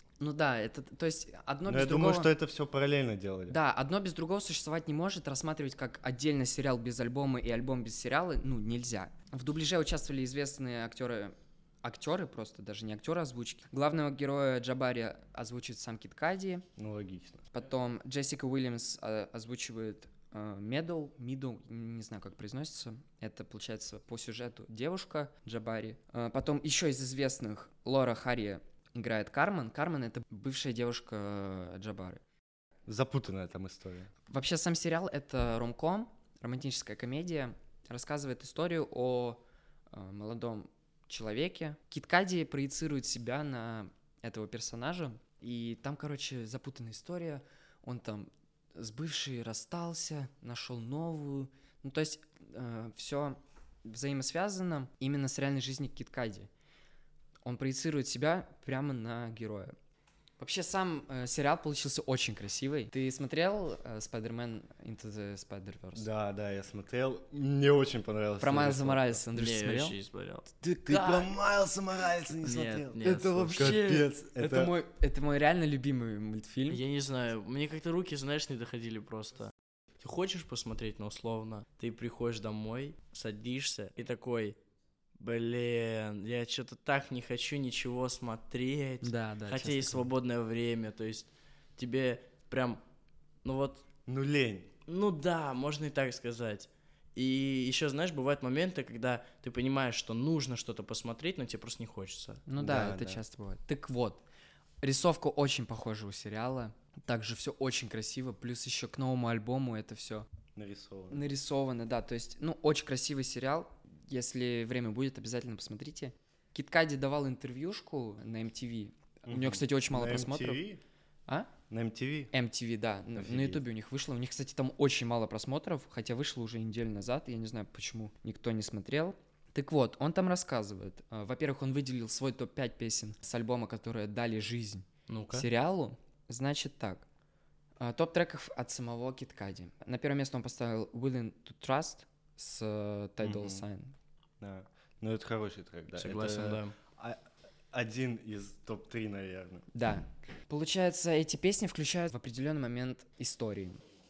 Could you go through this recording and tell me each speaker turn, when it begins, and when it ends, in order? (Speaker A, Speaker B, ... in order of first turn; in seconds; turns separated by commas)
Speaker A: 0.2-2.3, Speaker B: 1.6-3.5, Speaker A: 3.5-16.6, Speaker B: 16.8-17.4, Speaker A: 17.5-32.2, Speaker B: 32.9-34.1, Speaker A: 34.3-56.5, Speaker A: 57.4-59.7, Speaker A: 60.4-66.1, Speaker B: 65.9-69.2, Speaker A: 68.4-69.9, Speaker C: 69.3-70.5, Speaker A: 70.6-71.3, Speaker B: 70.8-74.7, Speaker C: 72.4-73.8, Speaker A: 73.0-76.8, Speaker C: 76.7-84.6, Speaker C: 85.2-92.8, Speaker A: 89.0-90.1, Speaker C: 93.4-93.8, Speaker B: 94.1-94.7, Speaker C: 94.9-102.4, Speaker A: 102.5-104.2, Speaker B: 102.6-103.2, Speaker A: 104.8-110.3, Speaker B: 110.5-111.2, Speaker A: 111.1-120.6, Speaker B: 119.3-120.8, Speaker B: 121.7-122.3, Speaker A: 122.3-137.0, Speaker B: 123.2-123.6, Speaker C: 135.1-135.5, Speaker A: 137.8-143.9, Speaker B: 143.2-143.6, Speaker B: 144.4-149.7, Speaker C: 145.9-146.7, Speaker A: 149.7-153.8